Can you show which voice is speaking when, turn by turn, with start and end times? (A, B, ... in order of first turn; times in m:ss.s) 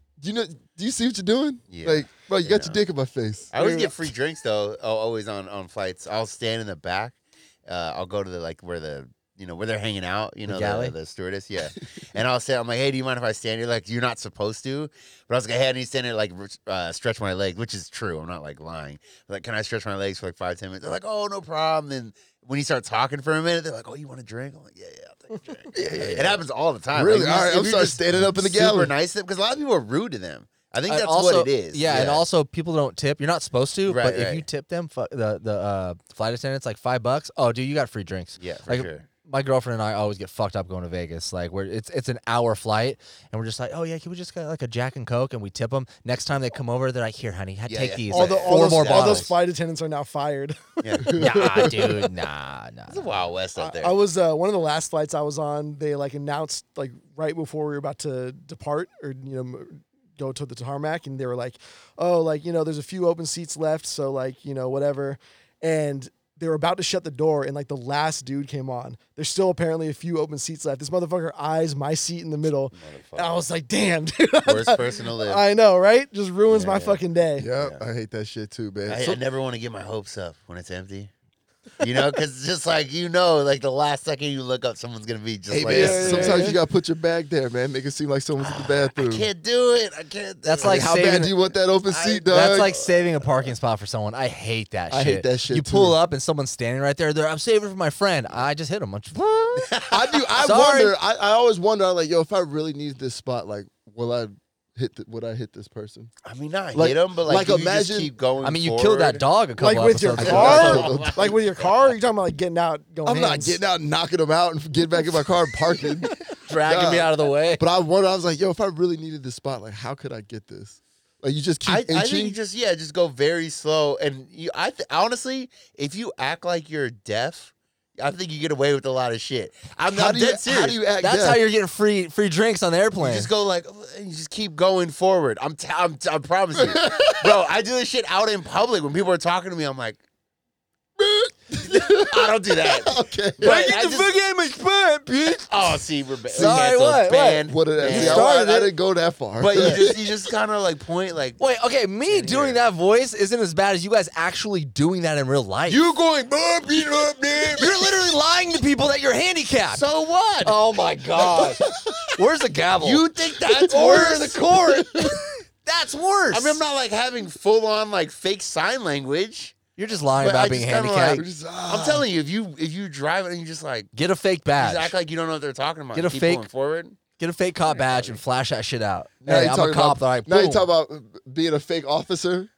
0:00.2-0:03.5 A
0:01.7-0:02.8 B
0:03.5-0:07.2 B
0:03.6-0:03.9 C
0:07.7-0:32.2 B
0:10.4-0:10.9 D
0:25.7-0:26.4 A
0:26.9-0:28.9 A
0:30.9-0:49.3 D
0:33.9-0:34.4 B
0:38.4-0:39.0 B
0:47.7-0:49.3 B
0:48.1-0:51.4 C
0:50.8-0:51.9 B
0:51.0-0:51.6 A
0:51.1-0:53.1 D
0:52.9-0:53.9 B
0:53.6-1:17.4 C
1:12.7-1:13.3 B
1:14.4-1:15.4 B
1:16.5-1:17.0 B
1:17.4-1:19.2 A
1:18.9-1:21.1 B
1:21.8-1:26.5 B
1:25.5-1:29.3 A
1:25.7-1:26.6 C
1:28.4-1:30.9 B
1:30.4-1:31.3 D
1:30.6-1:32.7 A
1:31.9-1:33.5 B
1:32.3-1:39.6 D
1:34.9-1:36.0 A
1:39.6-1:40.2 B
1:39.8-1:46.1 A
1:40.4-1:40.9 D
1:46.2-1:49.2 B
1:46.7-1:48.1 A
1:48.4-1:50.8 D
1:49.6-1:53.6 C
1:50.2-1:51.3 A
1:50.2-1:51.7 B
1:53.0-2:02.4 A
1:56.5-1:57.6 D
2:01.6-2:10.8 B
2:09.9-2:11.4 A
2:11.0-2:13.3 D
2:13.0-2:20.0 B
2:16.6-2:17.3 A
2:21.0-2:23.7 A
2:21.8-2:24.1 B
2:23.4-2:25.8 D
2:25.5-2:28.6 B
2:26.3-2:26.6 A
2:26.3-2:28.7 D
2:27.5-2:30.0 A
2:29.4-2:31.4 B
2:29.6-2:29.8 D
2:31.4-2:35.8 D
2:32.1-2:32.6 B
2:35.7-2:37.9 A
2:37.6-2:39.8 D
2:39.7-2:40.6 B
2:40.4-2:46.6 D
2:42.8-2:44.8 B
2:46.3-2:49.6 B
2:49.8-2:51.2 D
2:50.2-2:53.9 B
2:51.1-2:52.0 A
2:53.9-2:54.9 D
2:54.6-2:57.0 B
2:55.9-2:56.4 D
2:57.2-3:00.7 D
2:57.7-2:58.2 B
2:59.2-3:02.5 A